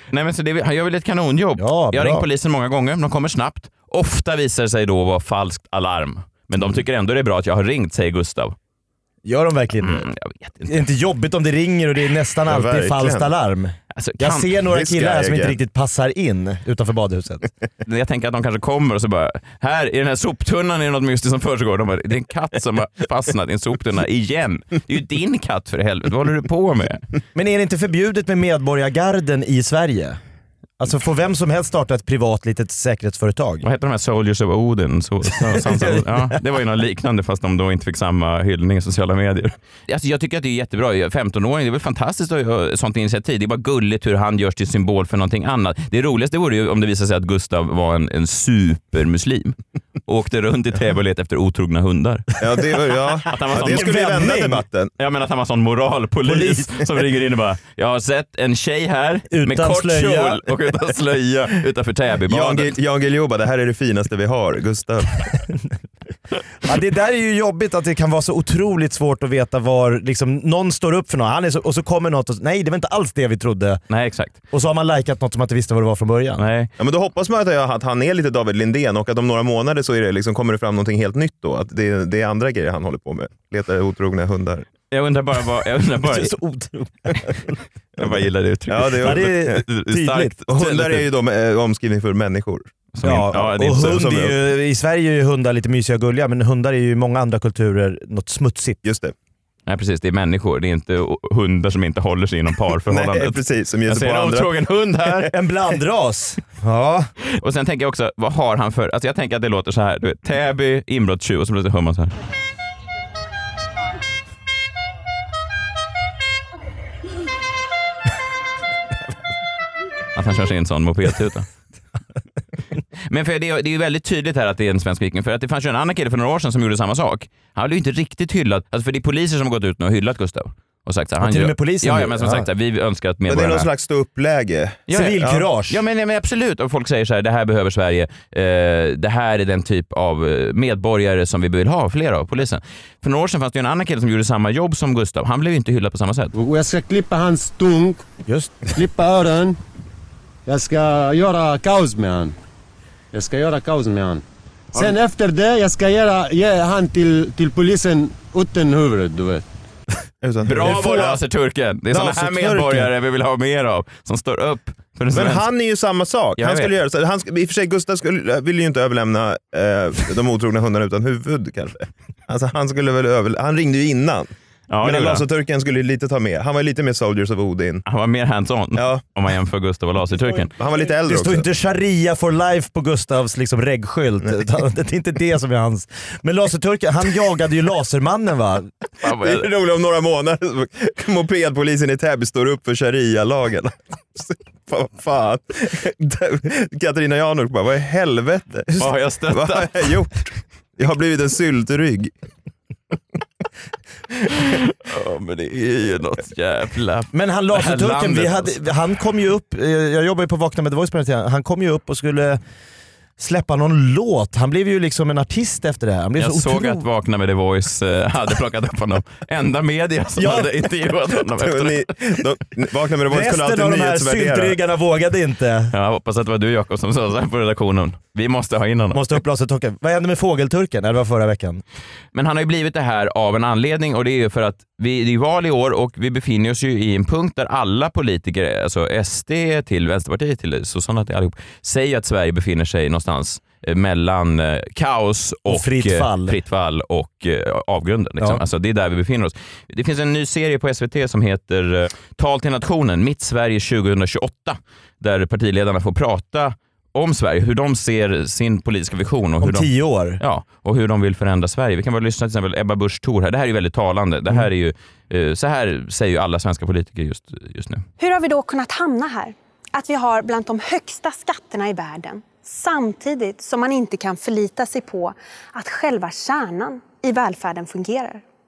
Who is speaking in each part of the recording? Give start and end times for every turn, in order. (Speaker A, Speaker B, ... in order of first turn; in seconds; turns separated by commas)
Speaker A: 0.1-8.6, Speaker B: 1.6-2.3, Speaker B: 9.2-10.1, Speaker A: 9.8-10.8, Speaker B: 10.7-17.4, Speaker C: 12.5-13.3, Speaker A: 13.9-14.6, Speaker C: 14.7-15.6, Speaker A: 17.9-27.0, Speaker B: 27.4-30.2, Speaker B: 30.8-33.6, Speaker A: 33.6-49.5, Speaker B: 35.4-36.4, Speaker A: 50.1-52.3, Speaker C: 52.4-54.9, Speaker A: 53.3-54.4, Speaker B: 53.5-54.6, Speaker A: 55.0-62.8, Speaker B: 56.2-56.7, Speaker B: 59.3-60.4, Speaker C: 62.3-65.3, Speaker B: 66.7-73.8, Speaker A: 73.9-74.4, Speaker B: 74.5-76.5, Speaker A: 76.4-76.7, Speaker C: 76.8-84.7, Speaker A: 84.9-86.3, Speaker B: 86.0-87.5, Speaker A: 88.0-91.0, Speaker C: 88.7-89.5, Speaker B: 89.0-90.4, Speaker C: 90.5-92.7, Speaker A: 92.9-94.1, Speaker B: 93.0-98.8, Speaker C: 93.7-94.3, Speaker C: 98.8-99.1, Speaker A: 99.7-105.3, Speaker C: 102.9-104.5, Speaker B: 105.3-107.1, Speaker A: 107.3-112.1, Speaker A: 120.2-121.5, Speaker A: 123.1-133.7, Speaker B: 131.2-132.5, Speaker C: 133.3-135.4, Speaker A: 134.9-146.3, Speaker B: 134.9-135.8, Speaker D: 146.3-148.1, Speaker B: 148.3-148.7, Speaker D: 148.8-149.6, Speaker D: 150.5-152.4, Speaker D: 153.1-154.2, Speaker D: 154.8-159.4, Speaker C: 160.2-161.2, Speaker A: 160.5-165.5, Speaker C: 161.9-162.8, Speaker C: 165.1-174.3, Speaker A: 166.4-166.7, Speaker A: 174.7-175.2, Speaker C: 174.8-177.8, Speaker A: 177.8-180.5, Speaker C: 178.8-179.0, Speaker B: 180.3-188.7, Speaker C: 180.6-181.4, Speaker A: 189.0-189.5, Speaker C: 189.2-202.1, Speaker A: 198.8-199.9, Speaker A: 204.5-208.5, Speaker B: 207.1-212.4, Speaker B: 213.2-216.8, Speaker A: 216.2-221.8, Speaker B: 220.2-220.6, Speaker C: 221.4-224.6, Speaker B: 223.1-225.7, Speaker A: 225.7-229.2, Speaker B: 228.9-231.6, Speaker A: 232.1-267.9, Speaker B: 245.5-246.4, Speaker B: 259.4-260.2, Speaker E: 268.0-278.2